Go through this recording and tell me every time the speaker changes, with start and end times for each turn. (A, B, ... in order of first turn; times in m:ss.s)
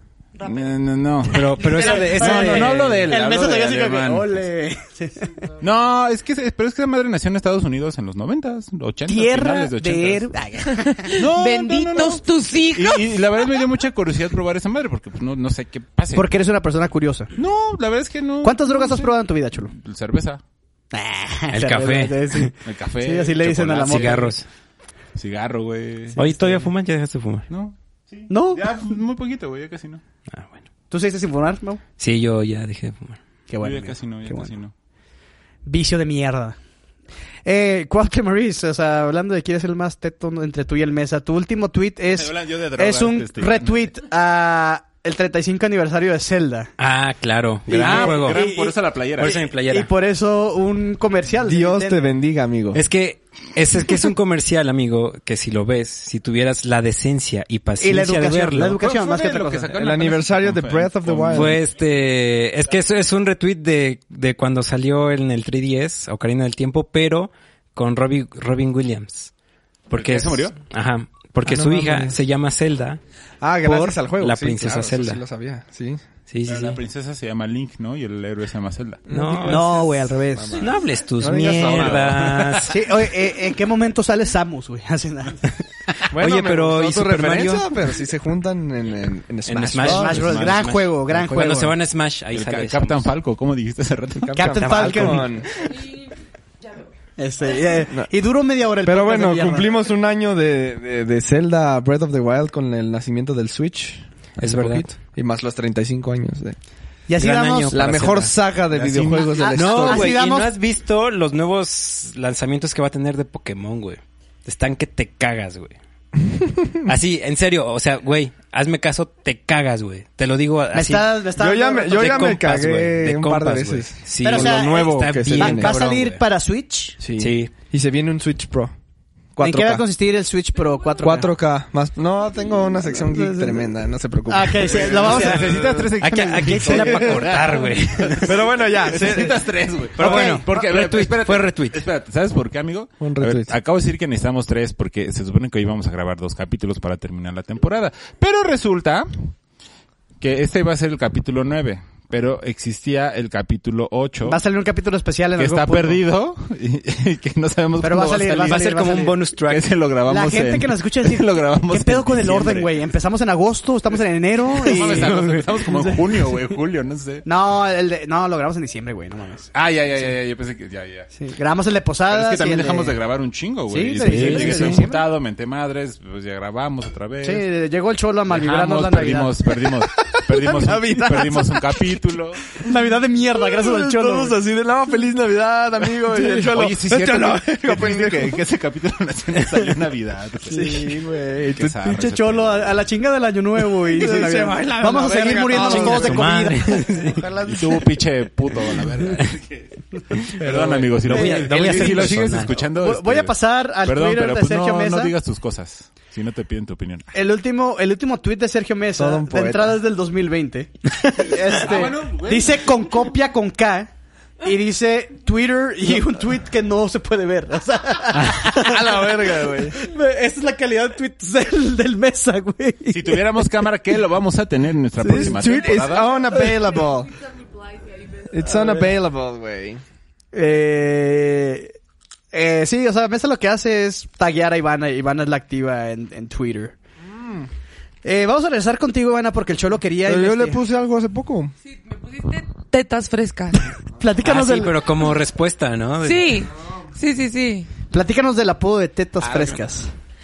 0:00.4-0:04.4 A
0:01.2-0:03.1 B
0:01.6-0:05.3 C
0:05.6-0:10.3 A
0:09.1-0:11.1 C
0:10.8-0:13.6 D
0:11.1-0:16.3 A
0:16.1-0:17.3 C
0:17.4-0:19.1 A
0:18.4-0:19.7 C
0:19.7-0:20.4 A
0:20.9-0:24.3 C
0:21.5-0:22.5 B
0:22.6-0:24.4 A
0:23.8-0:24.4 B
0:25.2-0:26.6 A
0:26.2-0:27.5 B
0:27.5-0:30.0 A
0:28.3-0:28.7 C
0:30.3-0:30.6 B
0:30.9-0:31.8 C
0:32.0-0:33.2 B
0:33.5-0:34.5 C
0:33.6-0:34.7 A
0:35.6-0:36.6 C
0:37.4-0:46.7 C
0:42.1-0:43.7 A
0:46.8-0:48.4 B
0:47.7-0:52.0 C
0:47.7-0:49.4 A
0:49.2-0:49.9 B
0:51.4-0:52.8 E
0:52.7-0:58.8 B
0:57.8-0:59.8 C
0:58.8-1:01.6 A
0:59.7-1:01.6 E
1:01.3-1:09.3 B
1:09.9-1:13.0 B
1:09.9-1:10.6 A
1:11.4-1:12.2 E
1:13.4-1:16.0 E
1:13.6-1:15.2 B
1:16.3-1:16.8 B
1:16.4-1:19.0 A
1:19.1-1:22.4 E
1:19.1-1:19.8 B
1:19.4-1:20.6 C
1:20.6-1:22.7 B
1:21.4-1:22.7 A
1:22.7-1:25.6 C
1:26.1-1:30.3 E
1:26.2-1:27.7 B
1:29.5-1:33.1 B
1:29.8-1:31.7 C
1:30.1-1:31.5 A
1:32.3-1:34.6 A
1:34.2-1:35.5 E
1:34.3-1:35.4 C
1:34.4-1:35.3 B
1:37.2-1:39.7 C
1:38.8-1:46.6 E
1:44.4-1:44.9 B
1:47.1-1:47.8 C
1:47.2-1:48.4 B
1:47.7-1:50.2 E
1:48.7-1:49.4 A
1:49.3-1:50.6 C
1:49.5-1:55.8 B
1:56.2-1:56.8 E
1:56.8-2:01.3 B
2:00.7-2:02.4 C
2:01.4-2:05.8 E
2:01.9-2:06.2 B
2:04.2-2:07.0 C
2:07.0-2:08.7 E
2:07.2-2:07.5 B
2:09.3-2:09.8 E
2:09.4-2:11.3 C
2:11.0-2:15.7 E
2:12.8-2:13.6 C
2:14.3-2:17.4 C
2:14.6-2:29.3 A
2:16.0-2:18.4 B
2:16.7-2:17.1 E
2:18.2-2:19.4 E
2:20.0-2:21.8 B
2:20.0-2:20.4 C
2:23.0-2:23.5 E
2:30.2-2:34.4 A
2:34.2-2:36.0 C
2:35.4-2:42.8 A
2:37.8-2:39.3 C
2:38.4-2:39.6 B
2:40.1-2:46.3 C
2:44.4-2:47.2 A
2:47.2-2:49.5 C
2:49.5-2:51.1 A
2:51.2-2:53.0 C
2:52.1-2:57.4 A
2:53.7-2:55.1 C
2:54.0-2:54.8 B
2:57.2-2:59.4 C
2:58.3-3:02.6 A
2:59.8-3:01.8 E
3:02.6-3:04.4 C
3:03.3-3:08.4 E
3:06.2-3:10.9 A
3:10.5-3:10.8 C
3:10.5-3:11.8 E
3:11.5-3:12.8 A
3:11.8-3:17.8 C
3:13.8-3:16.3 E
3:14.0-3:14.3 A
3:15.5-3:17.2 B
3:17.4-3:27.1 A
3:20.4-3:25.1 C
3:21.0-3:22.6 B
3:27.1-3:33.9 C
3:29.0-3:29.8 E
3:31.1-3:32.8 A
3:34.4-3:43.6 C
3:38.2-3:39.8 E
3:42.9-3:46.2 A
3:45.0-3:45.7 C
3:45.0-3:47.1 E
3:46.4-3:46.6 C
3:48.2-3:49.8 E
3:48.5-3:48.9 C
3:50.3-3:51.7 C
3:52.3-3:56.7 C
3:57.0-3:57.5 E
3:58.0-4:00.6 C
4:00.0-4:01.5 E
4:01.7-4:03.7 D
4:04.0-4:04.8 C
4:04.2-4:06.3 B
4:06.0-4:07.7 D
4:07.9-4:09.9 C